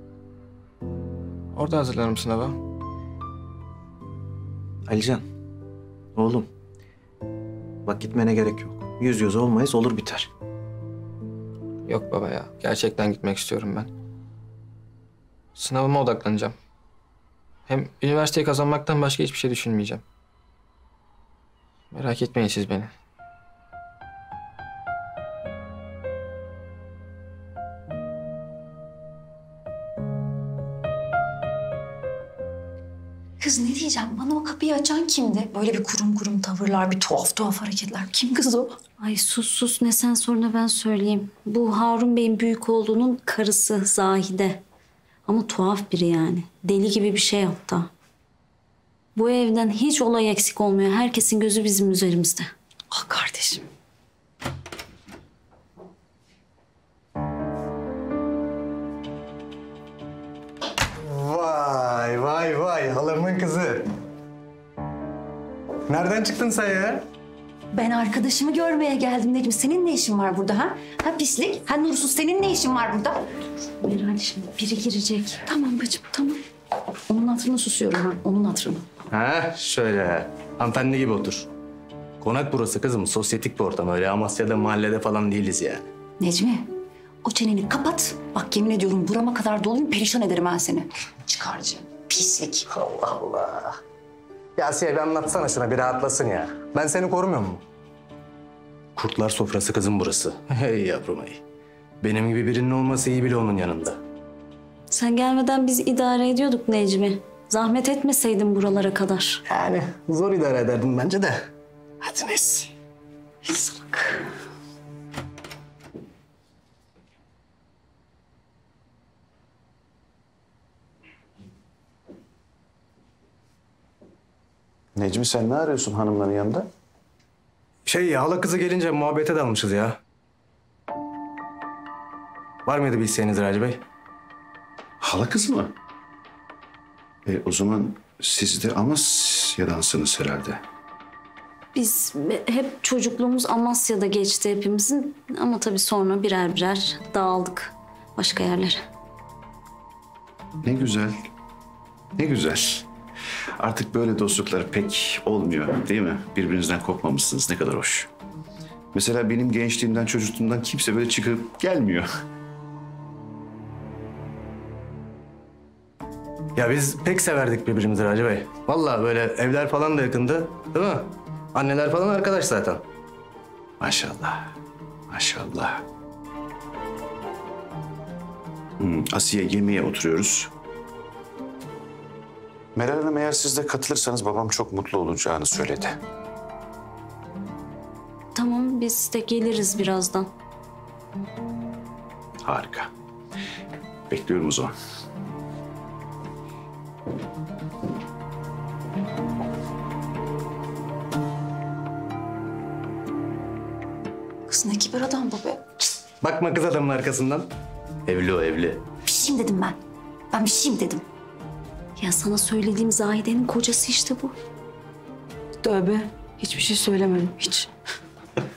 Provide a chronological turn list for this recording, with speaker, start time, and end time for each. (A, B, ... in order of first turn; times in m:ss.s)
0:01.5-0:02.6 A
0:04.8-0:05.2 B
0:06.1-0:06.5 B
0:07.8-0:10.3 B
0:11.8-0:13.9 A
0:15.6-0:16.5 A
0:17.7-0:20.0 A
0:21.9-0:22.9 A
0:33.4-0:38.8 C
0:39.0-0:44.6 D
0:45.2-0:47.9 D
0:49.1-0:52.5 D
0:52.9-0:53.6 C
1:01.0-1:03.9 E
1:05.9-1:07.0 E
1:07.7-1:13.2 C
1:13.8-1:15.2 D
1:14.5-1:16.4 C
1:17.1-1:18.9 C
1:19.1-1:21.5 E
1:22.2-1:25.8 E
1:26.2-1:26.7 C
1:27.2-1:32.6 C
1:32.7-1:33.8 E
1:34.6-1:37.6 E
1:39.0-1:41.4 E
1:42.0-1:44.0 E
1:44.9-1:49.4 D
1:49.5-1:51.4 E
1:52.0-1:52.7 E
2:05.0-2:06.7 F
2:07.8-2:10.0 E
2:12.6-2:13.8 E
2:15.0-2:15.7 F
2:17.2-2:20.6 F
2:21.7-2:28.8 D
2:30.6-2:31.3 F
2:32.2-2:32.8 F
2:33.6-2:38.1 F
2:38.9-2:42.1 F
2:46.6-2:52.8 E
2:53.8-2:54.5 F
2:55.1-2:55.8 F
2:58.8-3:00.5 F
3:02.7-3:06.0 F
3:08.3-3:10.3 D
3:12.4-3:12.9 F
3:14.1-3:14.7 F
3:24.5-3:25.6 C
3:26.2-3:27.5 E
3:28.1-3:28.8 E
3:29.0-3:29.8 C
3:30.3-3:31.0 C
3:32.0-3:34.3 D